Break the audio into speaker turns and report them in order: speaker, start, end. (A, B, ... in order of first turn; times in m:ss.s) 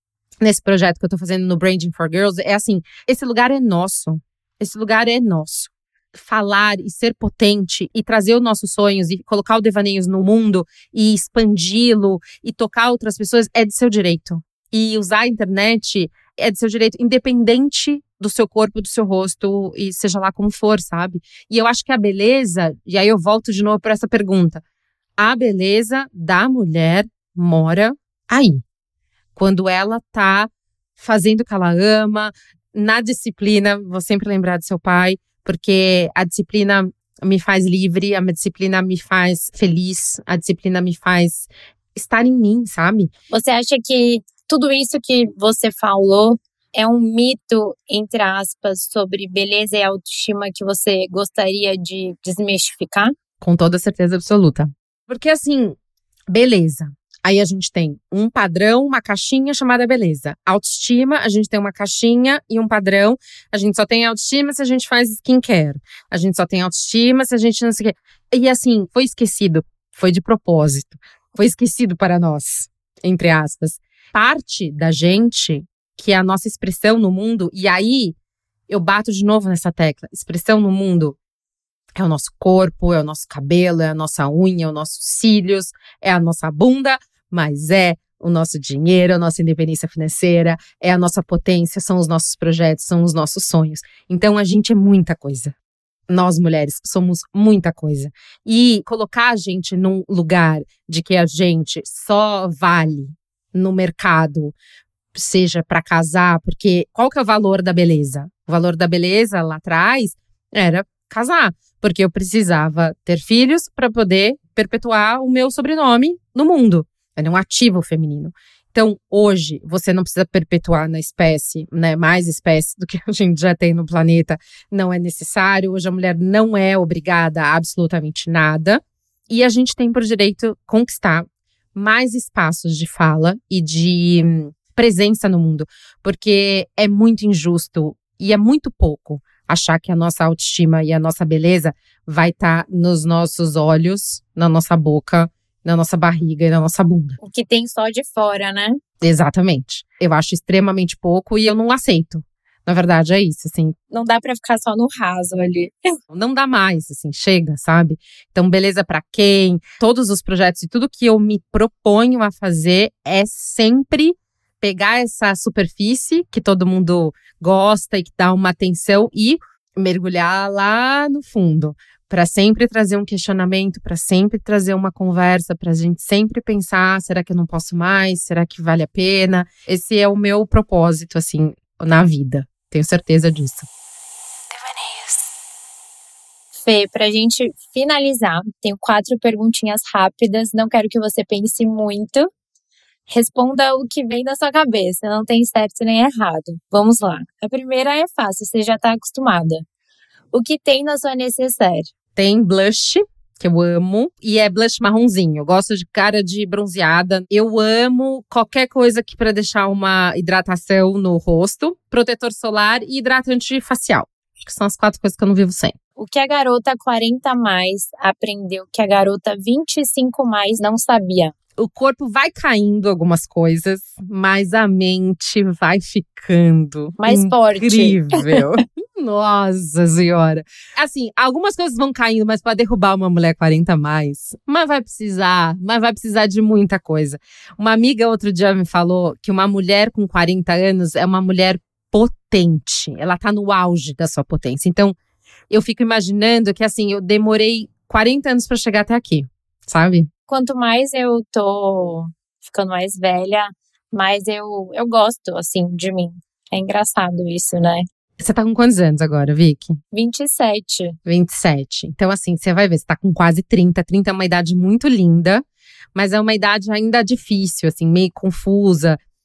0:00.4-0:24.6 A
0:25.2-0:28.6 A
0:29.4-0:43.1 A
0:43.3-0:53.1 B
0:53.4-0:55.8 A
0:56.3-1:18.1 A
1:18.7-1:21.2 A
1:22.0-1:35.6 A
1:36.1-1:44.6 A
1:45.1-2:27.2 A
2:27.2-2:28.8 B
2:29.0-2:33.8 A
2:33.9-2:35.7 B
2:36.1-3:03.7 A
3:04.6-3:05.3 B
3:06.6-3:12.3 B
3:13.1-3:19.6 B
3:20.3-3:21.9 B
3:22.2-3:35.8 A
3:36.0-3:41.3 B
3:41.6-4:05.0 A
3:47.0-3:48.4 B
4:05.5-4:10.1 A
4:10.3-4:17.9 B
4:18.2-4:19.8 A
4:19.9-4:21.0 B
4:21.0-4:25.4 A
4:26.0-4:29.0 A